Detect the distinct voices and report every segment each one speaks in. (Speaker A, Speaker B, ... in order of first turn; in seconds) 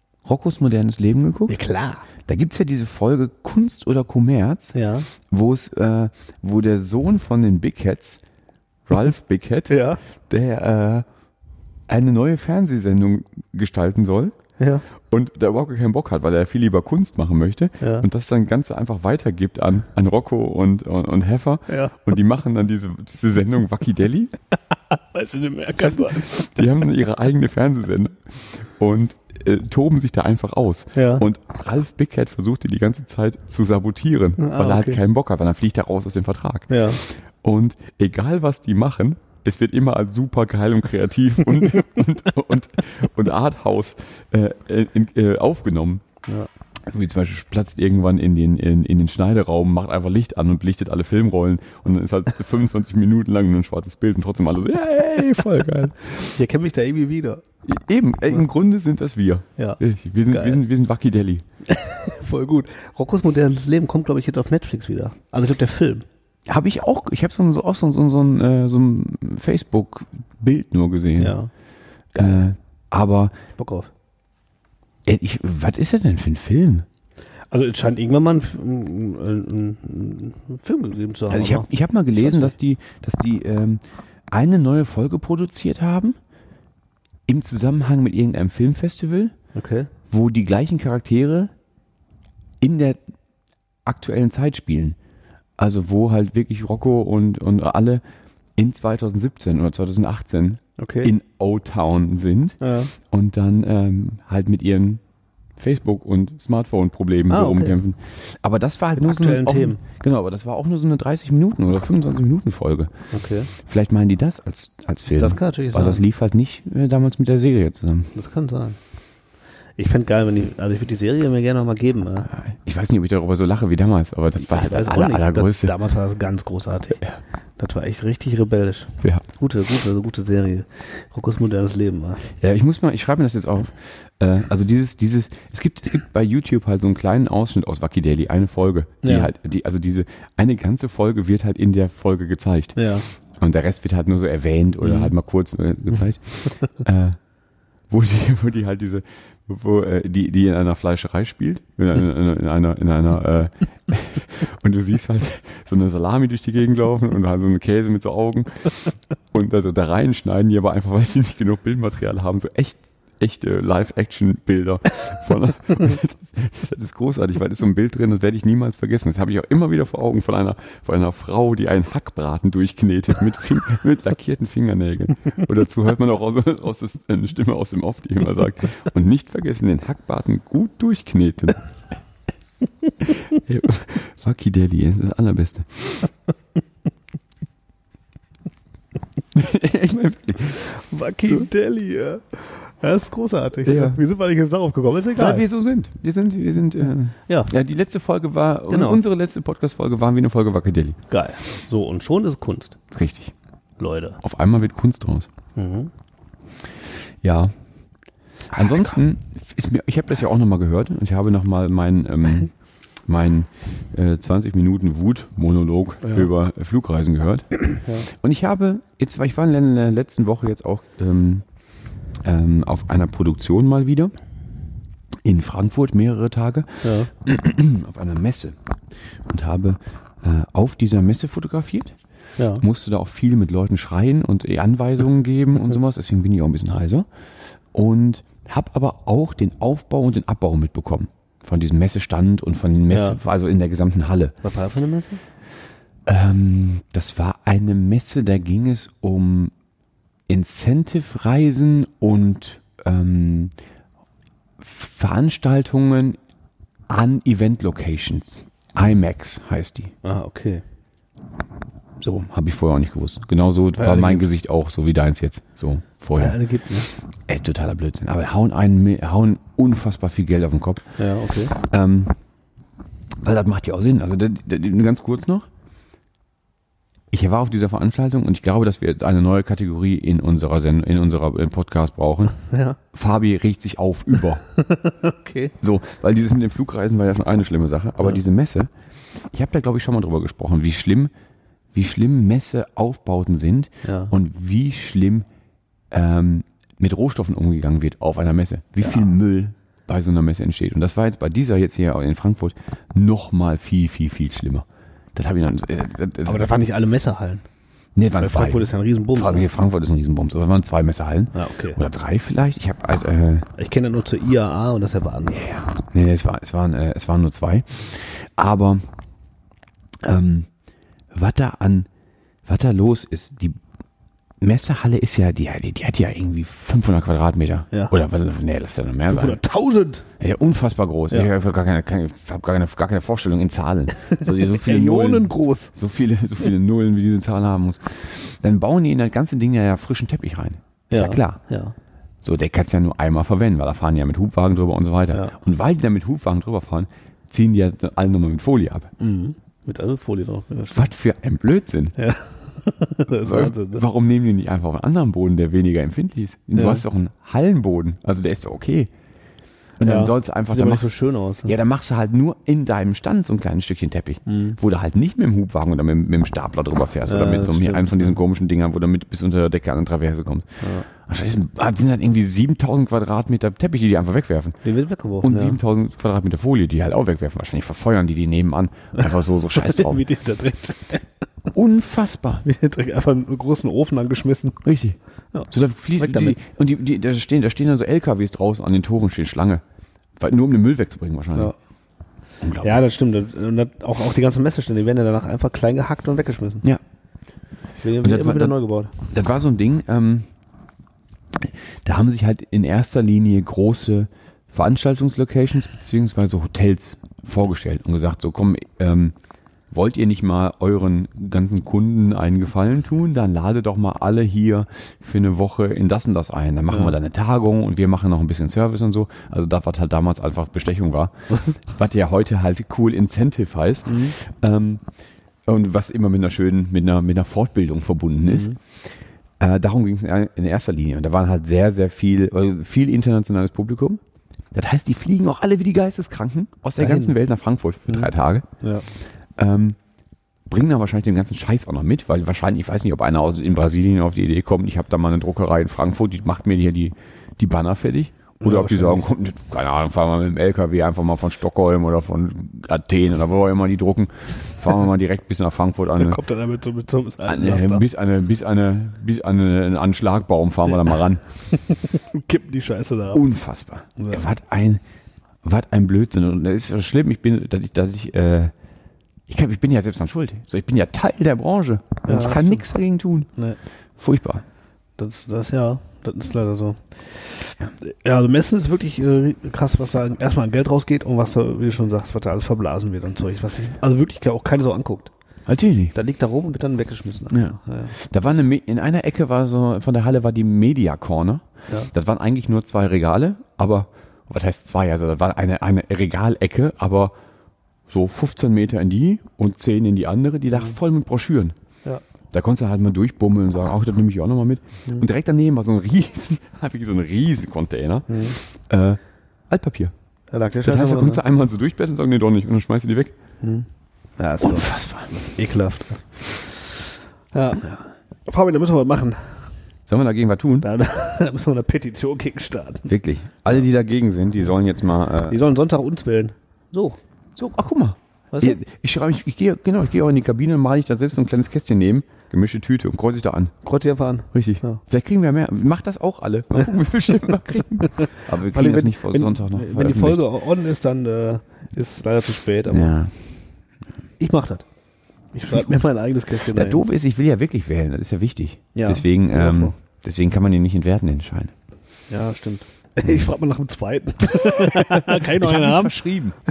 Speaker A: 0.2-1.6, 2.2-8.2, 8.9-11.1, 11.9-14.3, 15.0-24.3, 25.8-46.0, 46.9-56.3, 57.6-61.4, 66.5-71.4, 72.1-73.3, 75.0-76.8, 81.3-86.2, 87.3-89.3, 90.1-91.5, 92.6-93.0, 93.8-95.0, 95.6-98.0, 98.5-105.0, 105.6-112.9, 113.6-118.1, 122.3-125.7, 132.4-142.8, 143.4-147.2, 147.9-181.6, 183.0-185.9, 189.3-190.7, 193.6-194.0, 195.1-201.0, 202.9-203.3, 204.2-205.3, 207.2-207.5, 208.5-212.5, 213.1-221.4, 222.2-224.1, 225.2-228.6, 229.3-231.9, 232.6-237.1, 237.7-244.3, 246.1-249.5, 250.3-253.5, 254.6-256.2, 256.9-259.9, 262.0-266.4, 267.3-270.9, 271.5-272.1, 273.2-275.5, 277.1-282.3, 282.9-284.4, 285.6-288.7, 289.3-291.1, 291.7-295.2, 295.9-306.5, 307.9-313.5, 315.3-318.8, 320.0-320.5, 321.1-321.9, 322.4-323.6, 324.4-329.4, 330.2-341.4, 342.2-348.9, 350.7-351.9, 353.2-358.9, 359.8-360.9, 361.4-374.6, 375.2-380.0, 381.5-382.4, 384.6-385.0, 385.5-389.6, 390.2-391.5, 392.4-392.8, 398.0-398.6, 399.1-400.3, 401.3-409.1, 409.7-424.8, 425.4-428.9, 429.4-434.0, 434.5-438.4, 439.4-439.8, 440.5-456.2, 457.2-461.2, 463.1-464.8, 465.4-468.5, 469.3-473.3, 474.0-474.4, 485.5-485.9, 487.3-497.1, 497.9-501.6, 502.3-509.9, 510.6-513.1, 514.4-515.1, 519.9-520.7, 522.9-525.4, 527.4-533.5, 534.3-540.2, 542.7-543.1, 545.5-545.8, 546.5-551.5, 554.3-556.4
Speaker B: 1.5-2.0, 4.7-5.1, 9.7-10.0, 14.6-14.8, 17.8-18.1, 21.7-22.0, 24.9-26.5, 30.9-31.2, 34.4-35.0, 36.7-37.0, 56.3-57.4, 59.6-60.6, 61.7-66.0, 71.2-71.5, 72.1-72.5, 73.6-73.9, 77.5-82.5, 89.5-89.9, 100.8-101.1, 102.6-102.9, 107.3-107.8, 109.0-109.8, 113.1-113.5, 115.2-116.0, 118.1-118.8, 119.8-122.3, 124.4-127.0, 127.6-132.3, 139.0-139.3, 142.8-143.1, 144.8-145.1, 190.7-195.4, 198.7-199.0, 201.1-202.8, 203.8-204.2, 205.6-205.9, 226.8-227.1, 232.4-232.6, 242.9-243.2, 244.4-245.2, 260.0-260.6, 263.8-264.3, 266.1-266.9, 271.0-271.5, 282.4-282.8, 284.6-285.5, 293.8-294.1, 306.2-307.4, 308.2-309.5, 311.3-311.8, 313.6-315.5, 329.1-330.1, 334.1-335.7, 340.9-341.7, 349.0-350.9, 352.0-353.8, 356.6-356.8, 359.8-361.5, 364.2-364.6, 367.1-368.1, 370.6-370.9, 374.6-375.6, 379.0-381.0, 382.4-384.6, 385.3-386.4, 392.6-396.6, 397.8-398.9, 416.7-416.9, 423.9-424.1, 428.3-428.6, 436.8-437.1, 448.4-449.0, 456.0-457.9, 461.5-463.2, 464.0-464.2, 472.0-472.7, 475.0-485.1, 485.9-487.9, 508.1-508.4, 510.3-511.2, 513.4-513.7, 514.2-519.5, 520.6-522.9, 525.3-527.0, 528.3-528.6, 533.6-534.8, 538.0-542.9, 544.2-544.6, 545.3-546.8, 548.7-549.7, 552.1-556.0